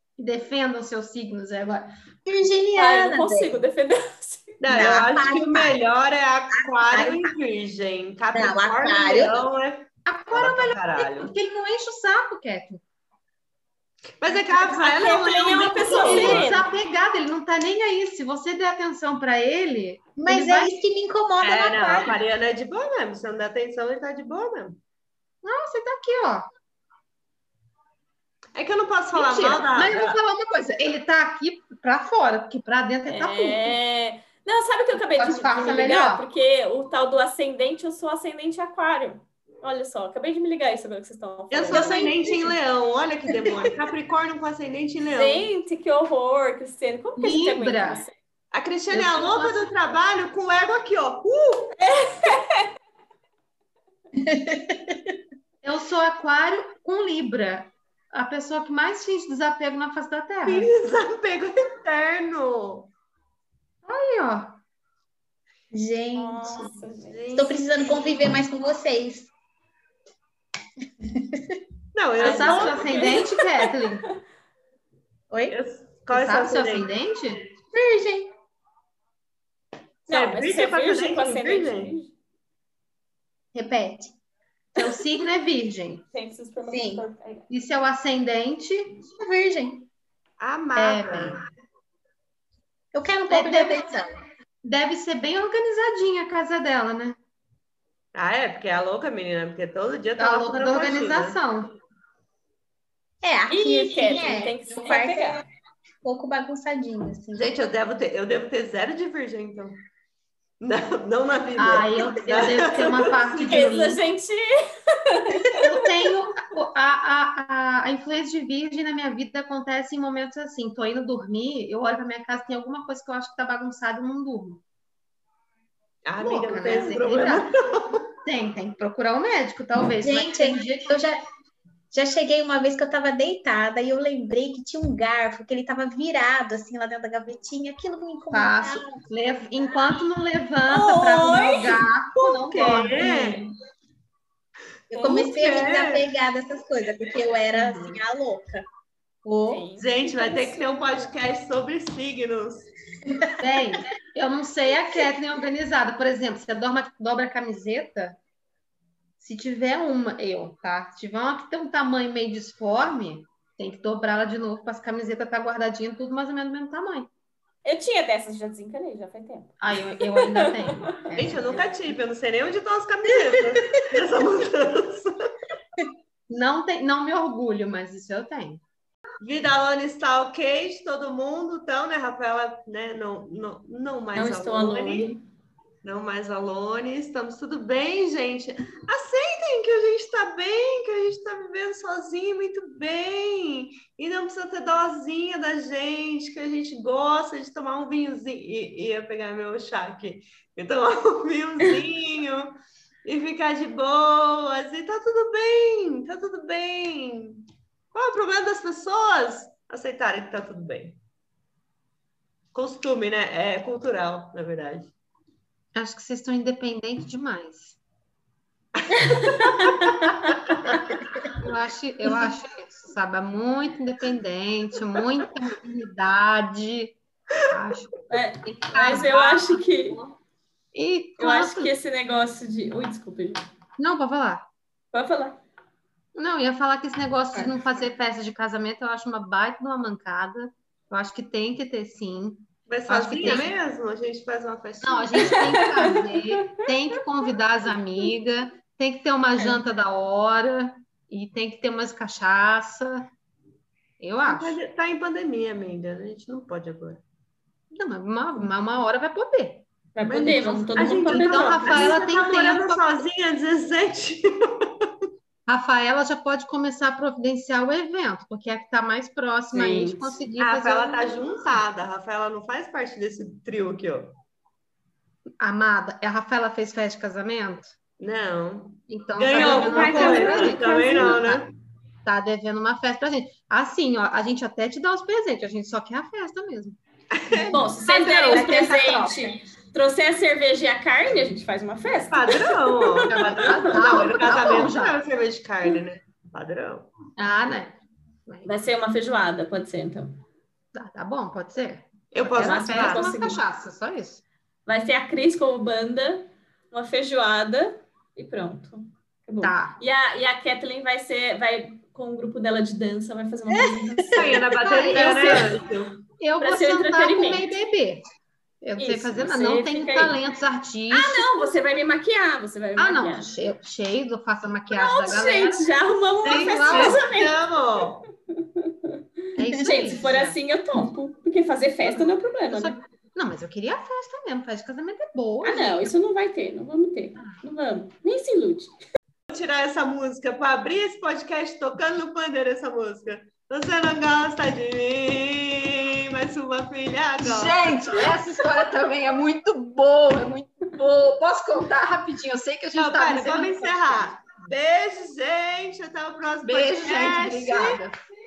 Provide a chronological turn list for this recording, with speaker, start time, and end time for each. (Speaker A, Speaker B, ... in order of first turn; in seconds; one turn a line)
Speaker A: 0.2-1.9
Speaker B: 2.3-3.6
Speaker C: 2.8-4.9
Speaker D: 4.6-11.3
Speaker B: 4.7-5.8
Speaker B: 6.5-7.3
Speaker B: 8.3-9.4
Speaker A: 10.1-12.8
Speaker D: 14.2-16.6
Speaker A: 14.3-14.8
Speaker C: 14.7-16.7
Speaker A: 15.8-20.8
Speaker B: 20.2-22.1
Speaker D: 21.4-24.8
Speaker A: 25.4-26.4
Speaker D: 28.6-30.2
Speaker A: 29.1-33.8
Speaker C: 33.1-42.2
Speaker A: 35.0-36.3
Speaker D: 41.5-45.5
Speaker B: 41.7-42.5
Speaker C: 45.1-48.1
Speaker A: 47.2-48.0
Speaker D: 48.5-51.7
Speaker A: 48.9-49.7
Speaker C: 51.8-52.7
Speaker B: 54.2-55.0
Speaker A: 55.6-60.7
Speaker D: 60.5-62.9
Speaker A: 63.9-64.6
Speaker B: 65.7-66.7
Speaker C: 66.2-67.3
Speaker D: 67.1-67.7
Speaker B: 67.3-69.3
Speaker B: 71.1-71.6
Speaker D: 71.9-73.3
Speaker A: 72.2-74.0
Speaker C: 72.2-73.2
Speaker D: 75.5-76.9
Speaker A: 76.1-77.4
Speaker B: 77.7-78.3
Speaker D: 80.1-81.9
Speaker C: 80.1-82.2
Speaker B: 83.5-84.1
Speaker A: 84.8-86.0
Speaker C: 86.1-87.4
Speaker B: 86.7-87.0
Speaker A: 87.5-89.0
Speaker B: 89.2-89.9
Speaker D: 90.4-91.4
Speaker A: 90.8-91.4
Speaker B: 92.9-94.2
Speaker A: 93.3-93.9
Speaker A: 94.6-97.2
Speaker D: 98.1-101.4
Speaker A: 100.2-101.7
Speaker B: 103.2-105.4
Speaker C: 103.5-105.4
Speaker B: 106.0-107.5
Speaker D: 107.3-109.8
Speaker D: 110.6-113.7
Speaker A: 111.6-114.0
Speaker C: 113.1-114.4
Speaker C: 115.1-115.6
Speaker A: 115.6-124.6
Speaker D: 126.0-128.0
Speaker A: 126.2-127.5
Speaker A: 128.2-130.9
Speaker B: 130.0-131.2
Speaker B: 131.9-138.9
Speaker A: 138.3-143.5
Speaker C: 140.7-141.7
Speaker D: 142.2-143.4
Speaker B: 144.9-148.6
Speaker D: 144.9-146.1
Speaker A: 147.5-148.0
Speaker B: 149.2-149.6
Speaker C: 149.4-150.6
Speaker D: 149.8-152.7
Speaker B: 153.1-153.4
Speaker A: 153.4-158.2
Speaker A: 159.2-167.1
Speaker C: 167.6-169.5
Speaker A: 169.6-171.9
Speaker D: 171.2-175.2
Speaker A: 176.3-178.6
Speaker D: 179.2-185.1
Speaker C: 184.1-185.2
Speaker D: 185.8-202.5
Speaker D: 203.1-211.0
Speaker D: 212.5-214.9
Speaker A: 215.8-217.8
Speaker D: 218.9-219.9
Speaker C: 219.1-220.3
Speaker A: 221.4-227.0
Speaker A: 227.5-230.1
Speaker C: 228.1-230.0
Speaker A: 230.7-231.7
Speaker C: 231.2-233.4
Speaker A: 233.8-234.5
Speaker C: 234.9-235.4
Speaker A: 236.1-243.6
Speaker D: 242.7-245.7
Speaker A: 244.8-253.1
Speaker C: 245.2-246.6
Speaker C: 249.4-249.6
Speaker A: 254.0-254.6
Speaker D: 254.2-257.0
Speaker A: 257.7-259.7
Speaker C: 259.9-262.0
Speaker D: 260.1-265.1
Speaker A: 260.8-263.1
Speaker A: 265.5-271.2
Speaker C: 269.5-270.2
Speaker D: 270.4-274.1
Speaker A: 275.4-277.7
Speaker D: 278.0-281.5
Speaker A: 278.9-281.4
Speaker A: 282.1-286.8
Speaker D: 287.1-287.6
Speaker A: 287.3-289.3
Speaker C: 287.5-294.0
Speaker D: 292.1-296.9
Speaker A: 293.1-295.0
Speaker A: 297.2-298.5
Speaker C: 298.4-300.2
Speaker A: 300.7-304.2
Speaker D: 302.1-303.1
Speaker C: 302.4-303.4
Speaker C: 304.6-314.3
Speaker A: 309.4-309.8
Speaker B: 314.0-314.4
Speaker D: 314.1-316.0
Speaker A: 314.1-315.6
Speaker C: 315.0-315.4
Speaker A: 316.2-318.1
Speaker C: 316.4-317.5
Speaker A: 318.6-321.5
Speaker C: 318.8-320.2
Speaker C: 320.9-323.3
Speaker A: 322.8-325.7
Speaker C: 324.7-327.4
Speaker A: 326.2-327.0
Speaker D: 326.2-328.0
Speaker C: 328.4-328.9
Speaker A: 329.4-330.4
Speaker C: 329.6-332.8
Speaker A: 331.9-335.9
Speaker C: 335.4-338.8
Speaker D: 339.3-347.7
Speaker A: 347.2-354.1
Speaker D: 352.8-357.8
Speaker A: 356.4-357.9